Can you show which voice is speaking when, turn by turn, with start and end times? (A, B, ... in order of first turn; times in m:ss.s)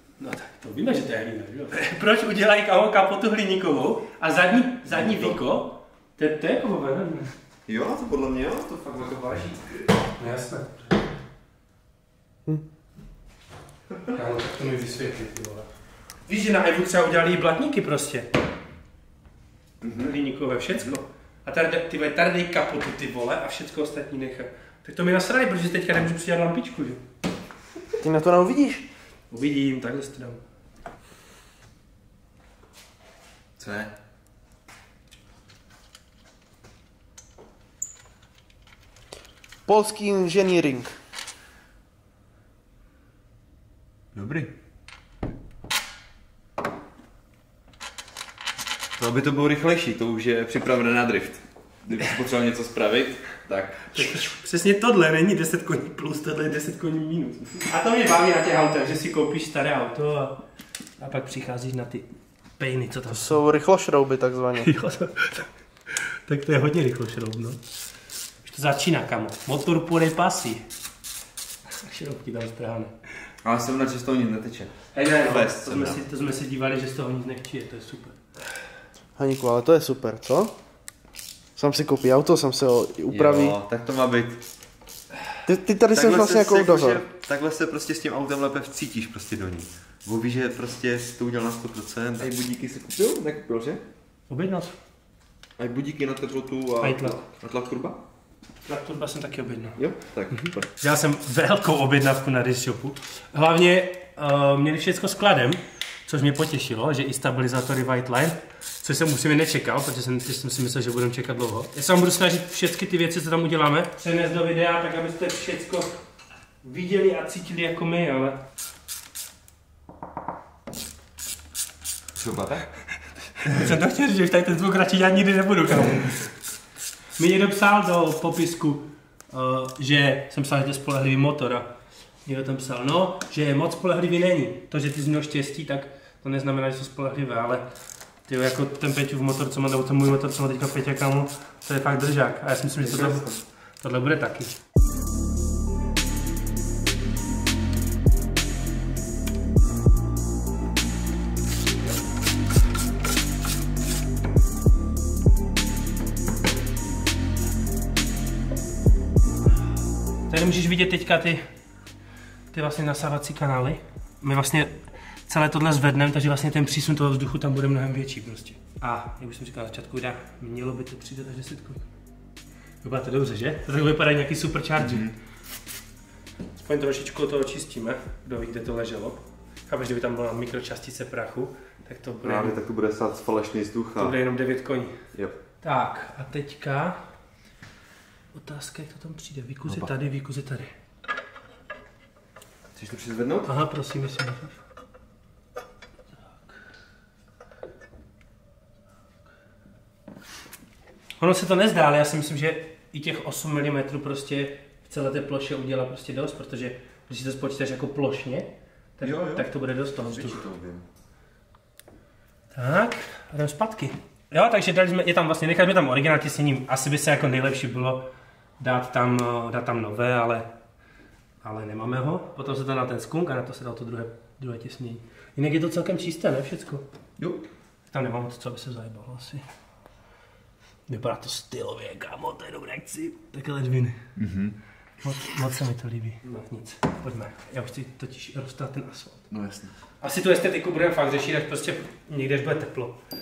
0:00.2-0:07.3 A
0:04.9-0:05.4 B
0:07.7-0:09.9 B
0:10.2-0:10.8 A
0:14.1-0:15.7 A
0:16.3-0:18.3 A
0:19.8-0:20.1 B
0:20.0-0:27.0 A
0:28.0-0:28.9 C
0:29.3-0:30.4 A
0:33.6-0:33.9 B
0:39.7-0:40.9 C
0:44.1-0:44.5 B
0:49.0-0:54.2 B
0:53.9-1:00.4 A
1:01.0-1:03.4 A
1:03.1-1:04.7 C
1:04.6-1:07.6 A
1:08.4-1:10.6 A
1:11.8-1:12.9 A
1:13.4-1:16.0 B
1:14.9-1:18.2 A
1:19.2-1:20.5 C
1:21.6-1:23.6 C
1:23.1-1:24.4 B
1:25.4-1:27.0 C
1:25.9-1:33.8 B
1:34.3-1:34.8 A
1:35.6-1:38.0 B
1:36.8-1:37.2 A
1:38.6-1:39.8 A
1:39.8-1:40.7 B
1:40.3-1:56.0 A
1:56.6-1:58.4 A
2:02.2-2:02.6 B
2:03.4-2:06.4 A
2:07.2-2:11.7 A
2:12.2-2:17.7 A
2:18.3-2:23.3 A
2:22.8-2:23.4 B
2:23.8-2:24.6 A
2:40.3-2:41.4 A
2:42.5-2:51.8 A
2:52.8-2:55.1 A
2:54.8-2:55.1 B
2:56.6-3:02.5 A
3:02.2-3:04.2 B
3:04.0-3:05.0 A
3:05.6-3:07.0 A
3:08.3-3:10.7 A
3:12.7-3:13.5 B
3:13.4-3:14.6 A
3:21.2-3:30.4 A
3:29.0-3:30.8 B
3:32.5-3:38.1 A
3:38.6-3:40.5 A
3:41.4-3:46.8 A
3:47.2-3:47.4 B
3:47.9-3:49.4 A
3:50.9-3:54.0 A
3:54.2-3:54.6 B
3:55.0-3:59.3 A
3:59.3-3:59.7 B
4:00.0-4:03.0 A